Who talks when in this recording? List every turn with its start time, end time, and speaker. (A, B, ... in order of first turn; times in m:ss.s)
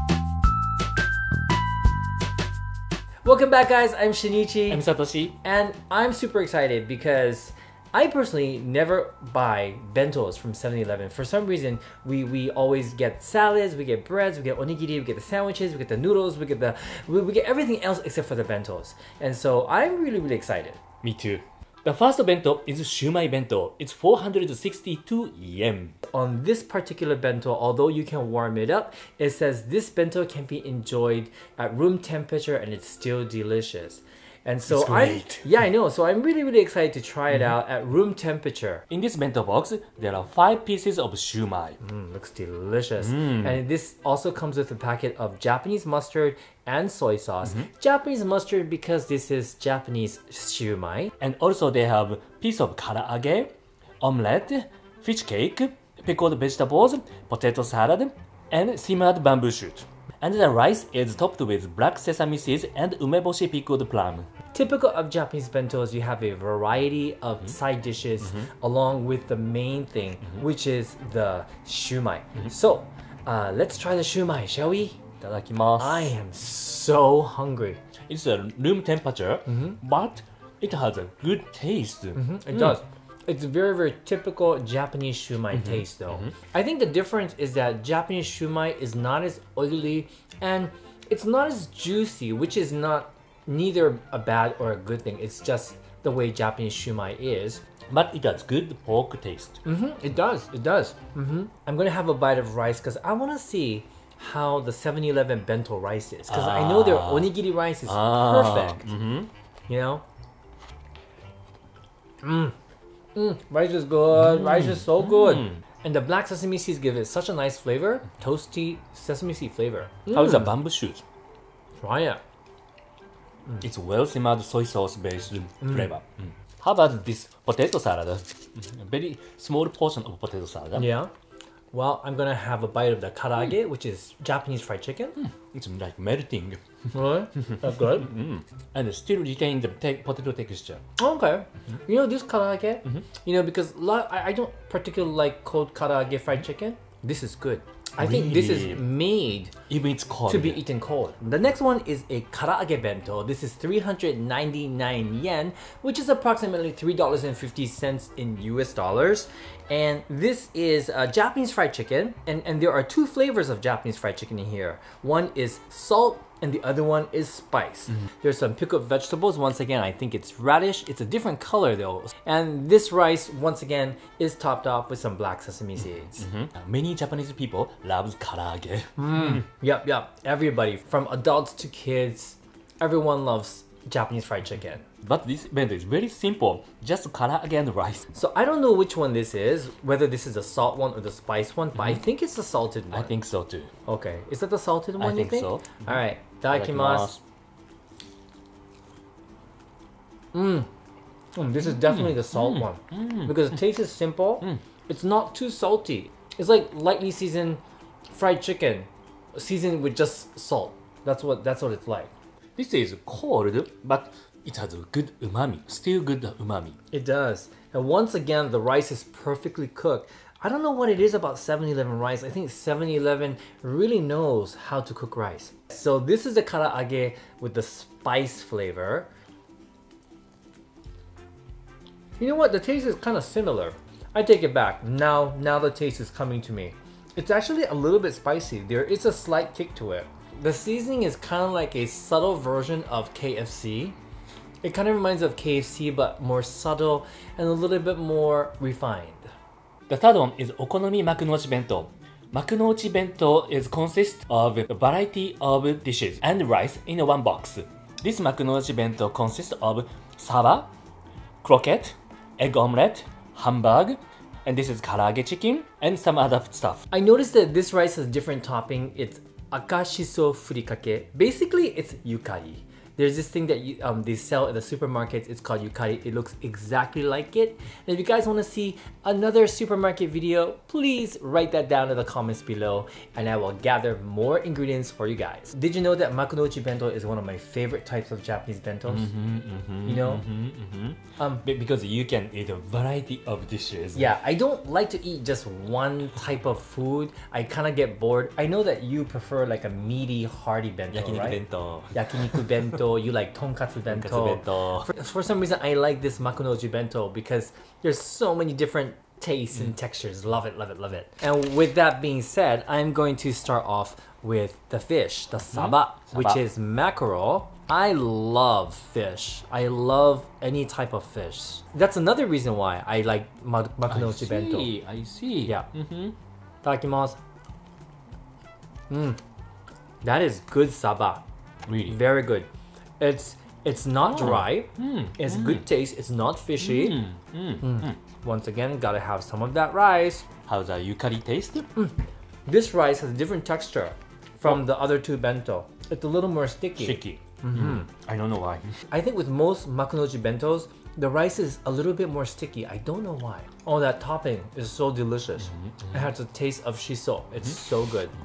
0:03.2-0:04.8 A
0:04.7-0:05.4 B
0:05.4-0:20.8 A
0:21.0-0:26.0 B
0:26.1-0:38.8 A
0:34.7-0:35.5 B
0:38.9-0:41.8 B
0:41.8-0:51.1 A
0:43.0-0:43.6 B
0:51.2-1:04.3 B
1:04.5-1:15.0 A
1:15.2-1:16.1 B
1:15.8-1:17.8 A
1:18.1-1:22.7 B
1:19.5-1:19.8 A
1:22.1-1:37.6 A
1:25.5-1:26.3 B
1:37.9-1:39.6 B
1:39.6-1:48.9 A
1:46.3-1:47.3 B
1:47.8-1:49.3 B
1:49.7-1:50.0 A
1:52.2-1:52.5 A
1:53.1-2:00.5 A
1:54.1-1:55.6 B
2:00.1-2:01.0 B
2:01.8-2:02.2 A
2:03.6-2:10.9 B
2:05.6-2:05.9 A
2:10.8-2:11.1 A
2:11.7-2:15.2 A
2:15.2-2:16.6 B
2:16.9-2:18.1 A
2:17.4-2:20.8 B
2:21.0-2:29.5 A
2:28.0-2:28.8 B
2:29.7-2:30.6 B
2:30.3-2:56.2 A
2:56.2-2:59.4 B
2:59.0-3:04.8 A
3:05.0-3:08.1 B
3:08.1-3:13.1 A
3:12.9-3:13.7 B
3:13.8-3:17.1 A
3:15.0-3:15.8 B
3:16.5-3:17.2 B
3:20.3-3:20.7 A
3:21.3-3:32.1 A
3:21.7-3:23.4 B
3:32.6-3:36.8 B
3:36.9-3:49.1 A
3:52.2-4:04.0 A
4:04.6-4:09.3 A
4:09.9-4:20.7 B
4:21.4-4:26.8 B
4:26.9-4:49.1 A
4:48.9-4:54.1 B
4:49.8-4:50.2 A
4:53.9-5:01.4 A
5:00.9-5:02.5 B
5:01.9-5:24.7 A
5:03.8-5:04.9 B
5:15.5-5:16.4 B
5:23.9-5:26.1 B
5:26.6-5:27.2 A
5:28.9-5:29.2 A
5:30.0-5:31.2 A
5:31.7-5:32.0 B
5:31.9-5:32.5 A
5:33.0-5:37.0 A
5:34.1-5:35.6 B
5:36.6-5:38.0 B
5:37.6-5:40.2 A
5:40.5-5:41.7 B
5:41.7-5:47.9 A
5:46.8-5:48.7 B
5:48.9-5:58.2 A
5:55.5-5:56.0 B